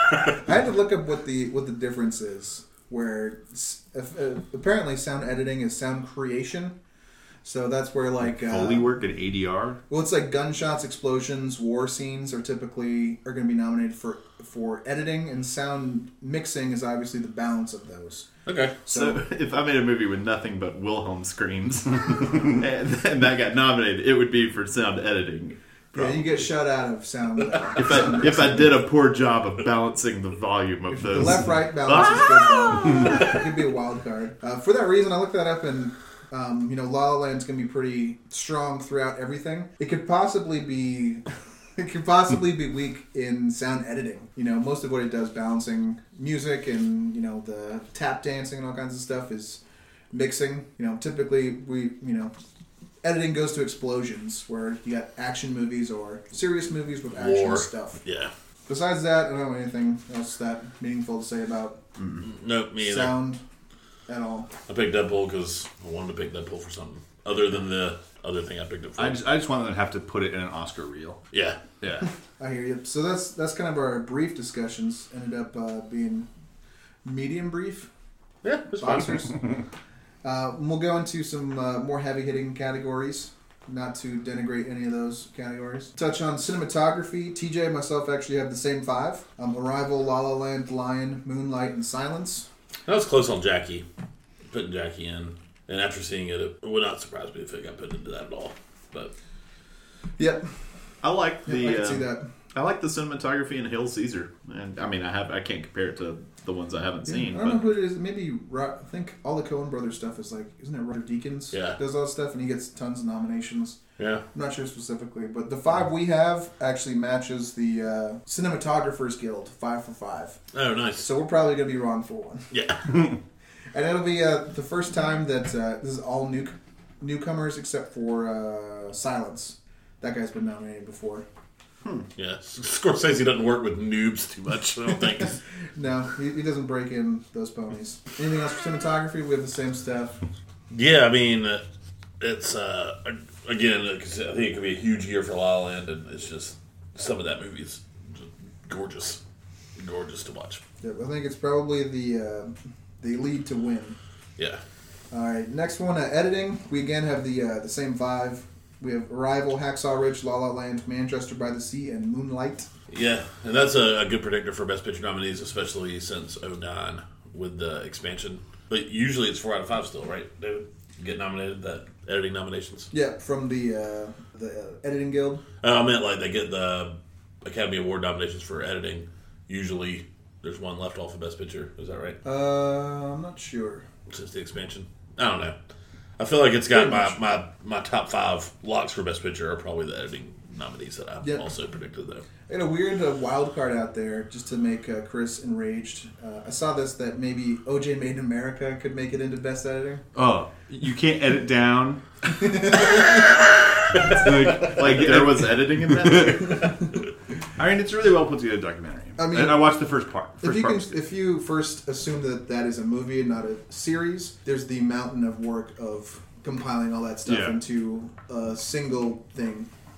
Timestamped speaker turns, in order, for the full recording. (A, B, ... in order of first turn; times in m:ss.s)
0:00.2-0:06.7 A
0:07.4-0:08.9 A
0:08.2-0:09.8 B
0:09.9-0:18.3 A
0:18.4-0:18.8 C
0:18.8-0:19.2 A
0:18.9-0:26.4 D
0:25.9-0:28.8 A
0:27.8-0:33.2 D
0:30.9-0:41.2 A
0:41.8-0:49.6 A
0:50.1-0:52.3 A
0:53.0-0:58.0 A
0:57.1-0:58.3 C
0:58.7-1:01.8 A
1:02.2-1:03.2 C
1:02.8-1:03.4 A
1:04.1-1:04.5 A
1:04.7-1:09.2 C
1:09.0-1:11.2 B
1:11.3-1:11.6 C
1:11.8-1:12.1 B
1:12.4-1:16.3 A
1:17.0-1:17.9 A
1:18.4-1:19.3 C
1:18.8-1:19.5 A
1:20.2-1:32.5 A
1:32.9-1:33.8 C
1:34.5-1:39.1 C
1:40.2-1:40.5 A
1:41.0-1:47.6 D
1:41.4-1:42.3 A
1:47.2-1:53.8 A
1:51.5-1:51.8 C
1:54.0-1:54.2 C
1:54.3-2:00.4 A
2:00.5-2:01.1 C
2:01.0-2:02.5 A
2:02.5-2:02.9 C
2:03.7-2:11.2 A
2:12.2-2:15.4 C
2:15.7-2:20.2 A
2:20.7-2:21.6 C
2:22.2-2:29.2 C
2:29.8-2:30.6 C
2:30.8-2:34.0 A
2:35.1-2:42.7 A
2:42.9-2:52.9 C
2:52.9-2:55.4 A
2:55.6-3:02.2 C
3:02.2-3:03.8 A
3:04.1-3:05.5 C
3:06.2-3:12.2 C
3:06.7-3:07.2 A
3:12.5-3:20.0 A
3:20.1-3:22.0 B
3:22.4-3:23.2 A
3:24.0-3:26.5 B
3:24.6-3:26.7 D
3:27.6-3:30.9 B
3:29.2-3:29.8 A
3:30.4-3:39.7 A
3:37.2-3:37.6 B